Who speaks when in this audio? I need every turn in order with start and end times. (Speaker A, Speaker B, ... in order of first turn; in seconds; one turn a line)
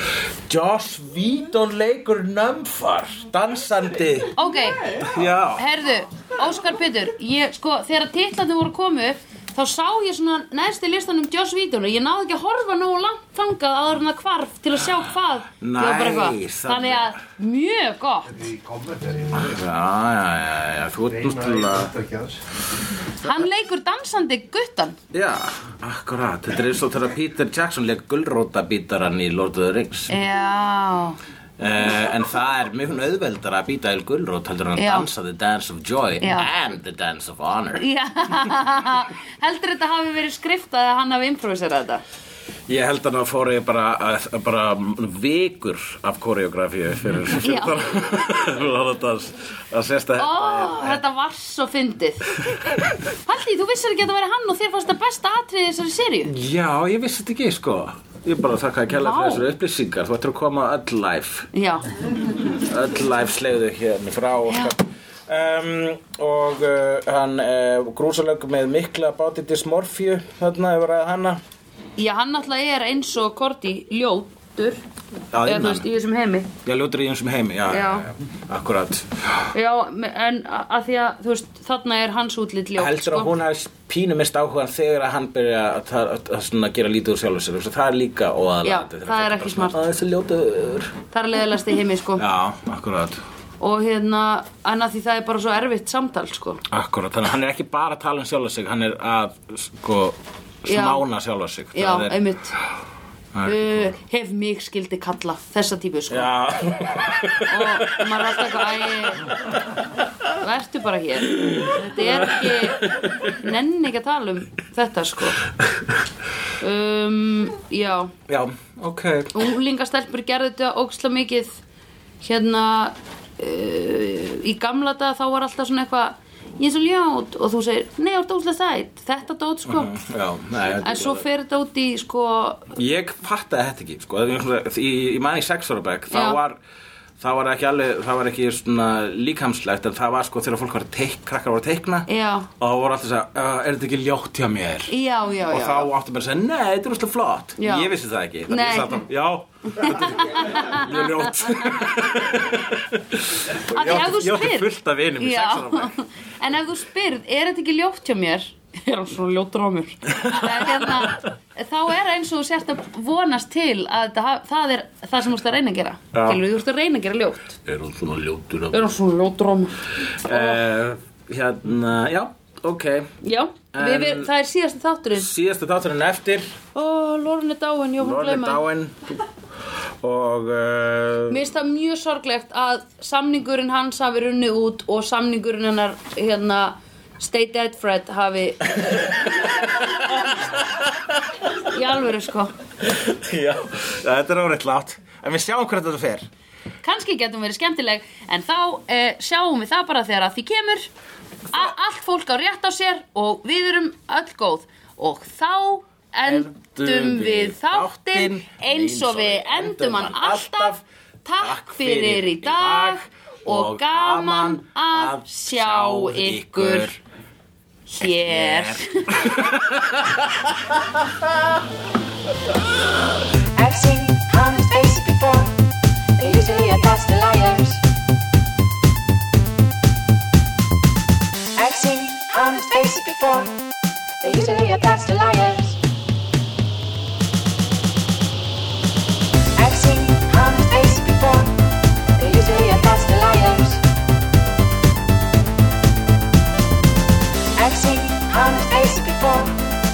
Speaker A: 0.5-4.3
Speaker B: 4.3-4.9
Speaker A: 5.0-5.7
Speaker B: 5.6-18.5
Speaker A: 15.6-17.2
Speaker C: 18.3-19.5
Speaker A: 19.3-21.9
Speaker C: 21.1-22.4
Speaker B: 23.2-25.0
Speaker A: 25.1-30.1
Speaker B: 30.1-31.2
Speaker A: 31.6-37.9
Speaker B: 34.8-35.1
Speaker B: 36.2-36.5
Speaker B: 37.8-42.0
Speaker A: 42.7-51.0
Speaker B: 47.4-47.8
Speaker B: 50.2-52.5
Speaker A: 52.4-53.0
Speaker B: 53.3-56.3
Speaker A: 56.2-61.5
Speaker B: 59.0-59.5
Speaker B: 61.5-61.9
Speaker A: 62.4-71.4
Speaker B: 64.5-64.7
Speaker B: 72.0-74.8
Speaker A: 75.3-75.9
Speaker B: 75.5-76.5
Speaker A: 76.7-79.5
Speaker B: 77.7-78.1
Speaker B: 79.5-83.3
Speaker A: 82.8-91.0
Speaker B: 88.6-89.8
Speaker B: 91.1-92.2
Speaker A: 92.2-93.2
Speaker B: 93.6-96.6
Speaker A: 96.7-102.3
Speaker B: 100.7-101.0
Speaker B: 101.7-102.5
Speaker A: 103.3-104.0
Speaker B: 103.4-106.3
Speaker A: 106.1-109.2
Speaker B: 107.5-109.3
Speaker B: 110.4-115.4
Speaker A: 111.3-113.4
Speaker B: 116.6-118.1
Speaker A: 118.3-119.3
Speaker B: 119.3-121.6
Speaker B: 122.2-130.0
Speaker A: 129.7-131.3
Speaker B: 130.8-132.7
Speaker A: 132.7-136.6
Speaker B: 136.1-136.4
Speaker A: 137.2-142.1
Speaker B: 142.1-142.5
Speaker A: 142.6-144.9
Speaker B: 144.9-145.9
Speaker A: 145.5-155.9
Speaker B: 147.6-147.9
Speaker B: 148.5-149.0
Speaker B: 149.7-152.3
Speaker B: 153.6-167.6
Speaker A: 160.1-161.2
Speaker A: 166.1-166.4
Speaker A: 167.7-168.8
Speaker B: 168.7-170.6
Speaker A: 170.2-173.1
Speaker B: 173.2-175.3
Speaker A: 173.7-174.3
Speaker A: 175.1-176.6
Speaker B: 176.8-178.6
Speaker A: 178.0-179.2
Speaker A: 180.0-181.4
Speaker B: 181.3-189.1
Speaker A: 188.8-191.4
Speaker B: 191.7-192.5
Speaker A: 192.8-196.3
Speaker B: 196.8-200.9
Speaker B: 201.5-217.0
Speaker A: 206.3-210.8
Speaker A: 211.4-217.0
Speaker B: 217.9-219.4
Speaker A: 218.0-221.3
Speaker D: 223.6-225.6
Speaker D: 226.2-227.8
Speaker D: 231.6-233.6
Speaker D: 234.2-235.8
Speaker D: 239.6-241.6
Speaker D: 242.2-243.8
Speaker D: 247.6-249.6